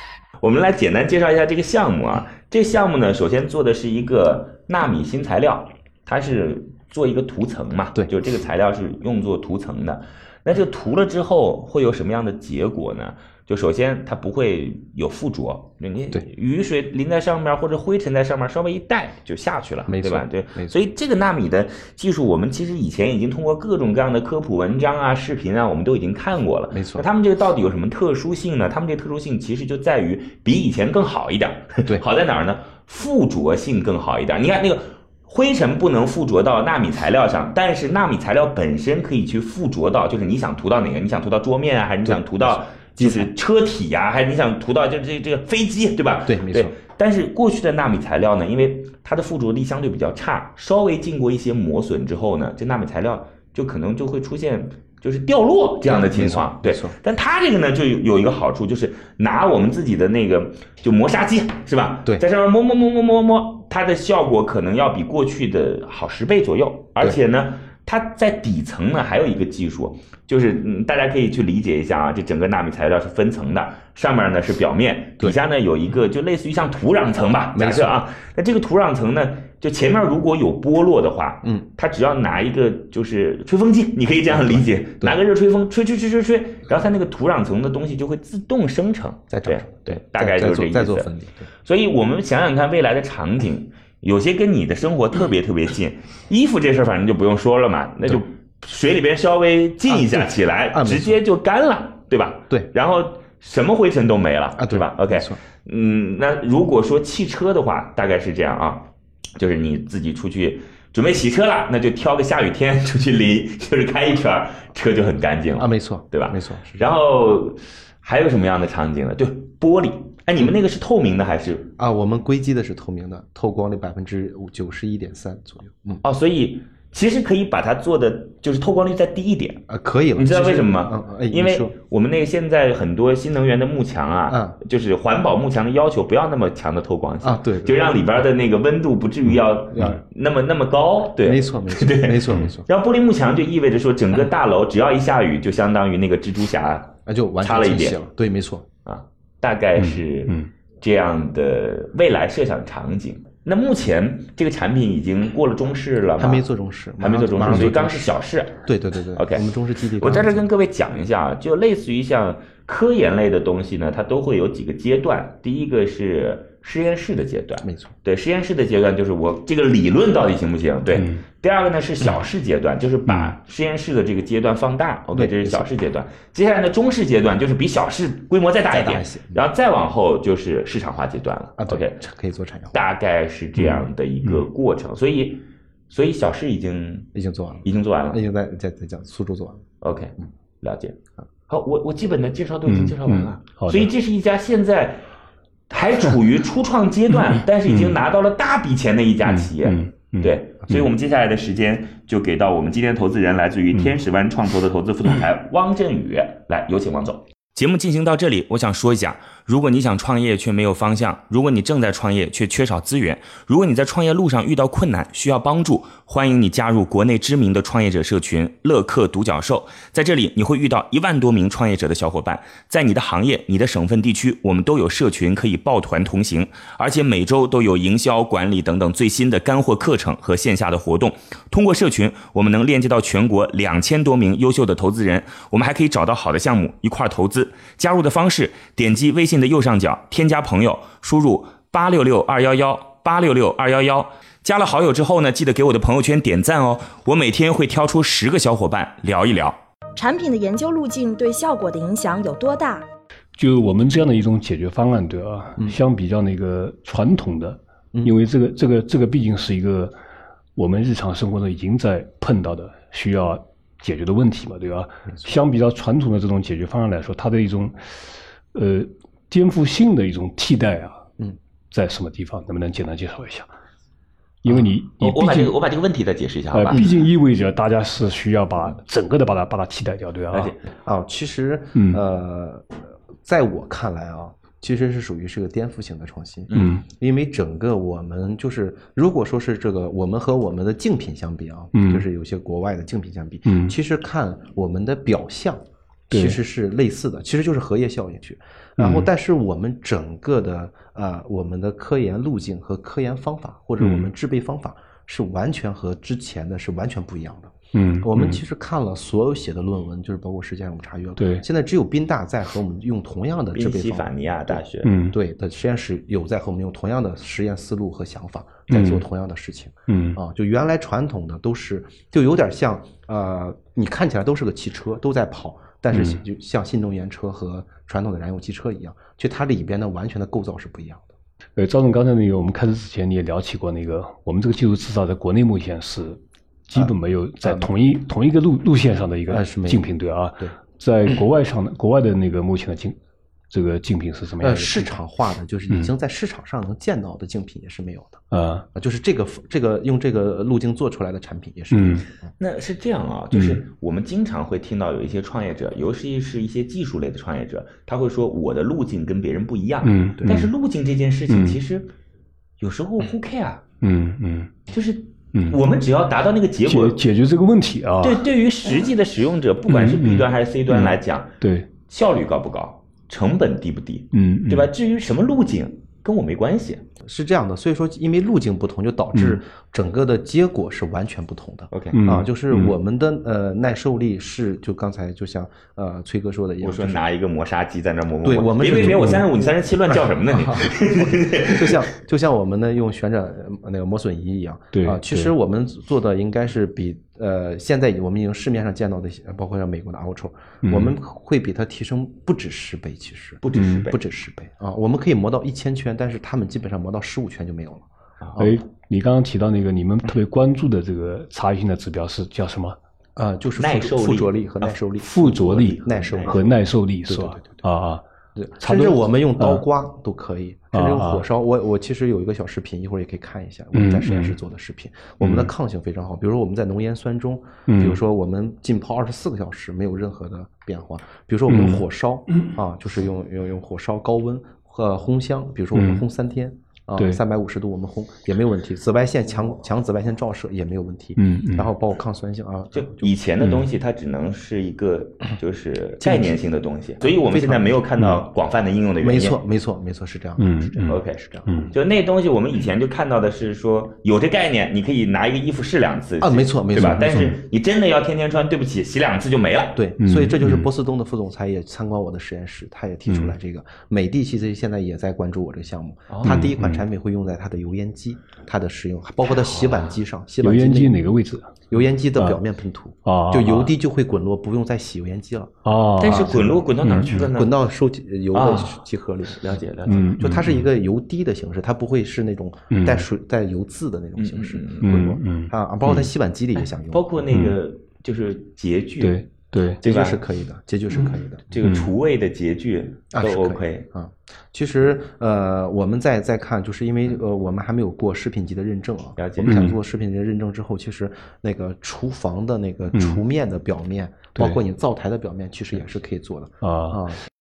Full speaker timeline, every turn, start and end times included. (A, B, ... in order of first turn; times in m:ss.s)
0:00.4-1:31.1 A
0:19.9-0:20.7 B
0:26.7-0:27.1 B
0:42.0-0:43.3 B
0:46.2-0:46.7 B
0:55.8-0:56.9 B
1:17.5-1:18.0 B
1:24.3-1:25.2 B
1:29.3-1:31.5 B
1:31.6-2:01.7 A
1:39.9-1:41.2 B
1:44.6-1:45.4 B
1:55.6-1:56.8 B
2:01.8-2:06.0 B
2:06.0-2:28.0 A
2:09.7-2:11.7 B
2:14.3-2:14.6 B
2:17.2-2:18.0 B
2:21.2-2:22.7 B
2:27.0-2:28.6 B
2:28.8-2:36.4 A
2:29.8-2:30.5 C
2:36.2-2:38.1 B
2:37.0-2:38.6 A
2:38.6-2:40.4 B
2:39.1-2:39.4 A
2:40.0-3:02.0 A
2:47.6-2:47.9 B
2:50.9-2:51.2 C
2:55.1-2:55.7 B
2:58.7-2:59.4 B
3:01.6-3:02.8 B
3:02.7-3:07.1 A
3:07.1-3:09.7 B
3:07.6-3:08.2 A
3:09.8-3:11.0 A
3:11.5-3:15.0 A
3:12.6-3:13.9 C
3:15.7-4:09.6 A
3:17.7-3:18.0 C
3:19.3-3:20.3 C
4:10.0-4:12.8 D
4:13.4-4:20.0 C
4:20.6-4:27.9 C
4:28.5-4:31.1 C
4:31.7-4:33.5 C
4:34.4-4:35.5 C
4:35.0-4:36.8 A
4:36.5-4:40.5 C
4:40.3-4:40.6 A
4:40.8-5:31.1 B
4:41.7-4:42.0 C
4:46.5-4:46.8 C
4:51.7-4:52.0 C
4:53.4-4:53.7 C
4:56.1-4:56.4 C
4:58.8-4:59.0 C
5:03.8-5:04.1 C
5:07.7-5:08.4 C
5:11.2-5:11.4 C
5:13.5-5:14.9 A
5:14.8-5:15.2 C
5:18.7-5:19.0 C
5:19.9-5:20.2 C
5:25.9-5:26.2 C
5:31.6-5:43.0 C
5:37.4-5:37.7 B
5:39.3-5:39.9 B
5:43.5-5:45.0 C
5:44.4-5:48.2 B
5:48.3-5:48.6 C
5:48.7-5:52.3 B
5:51.7-5:52.0 C
5:52.4-6:01.9 A
5:53.3-5:53.6 C
5:59.8-6:00.5 C
6:01.3-6:01.6 C
6:02.6-6:03.6 A
6:03.8-6:04.5 C
6:04.7-6:07.0 A
6:06.6-6:08.2 C
6:08.0-6:11.3 A
6:09.7-6:11.7 C
6:11.8-6:16.8 A
6:14.1-6:14.7 C
6:17.0-6:27.0 B
6:19.1-6:19.4 C
6:21.7-6:22.0 A
6:21.9-6:22.7 C
6:26.6-6:31.8 A
6:28.2-6:48.5 B
6:28.8-6:29.2 C
6:34.7-6:35.3 C
6:40.6-6:40.9 C
6:43.4-6:44.0 A
6:43.5-6:43.8 C
6:48.4-6:52.8 C
6:53.2-6:55.3 B
6:53.6-6:56.3 A
6:55.0-6:58.0 C
6:55.8-6:56.5 B
6:57.1-6:57.6 B
6:58.4-7:23.1 B
6:58.6-6:59.6 C
7:00.7-7:01.2 C
7:03.7-7:04.3 C
7:05.2-7:05.5 C
7:07.7-7:08.0 C
7:11.5-7:12.5 C
7:15.7-7:16.0 C
7:21.2-7:21.7 C
7:22.7-7:29.4 A
7:26.0-7:26.4 B
7:27.2-7:28.2 B
7:29.0-7:31.7 B
7:30.4-7:31.7 C
7:30.9-7:39.8 A
7:36.2-7:37.2 B
7:36.7-7:37.4 C
7:39.7-7:51.0 B
7:40.0-7:40.7 C
7:43.1-7:43.3 C
7:46.1-7:46.5 A
7:46.2-7:46.8 C
7:49.3-7:49.9 A
7:50.4-7:51.6 C
7:51.7-7:56.5 B
7:53.0-7:53.7 C
7:55.6-7:57.2 C
7:56.0-7:57.6 A
7:57.2-7:59.6 B
7:58.3-7:58.8 A
7:59.4-8:00.1 A
7:59.9-8:00.6 C
8:00.2-8:07.2 B
8:02.7-8:03.0 C
8:04.2-8:05.2 A
8:04.8-8:06.1 C
8:06.9-8:10.2 A
8:09.0-8:09.8 C
8:09.8-8:11.4 B
8:11.5-8:13.9 A
8:13.1-8:27.2 B
8:19.2-8:19.6 A
8:19.4-8:19.7 C
8:22.9-8:23.2 C
8:26.6-8:27.0 C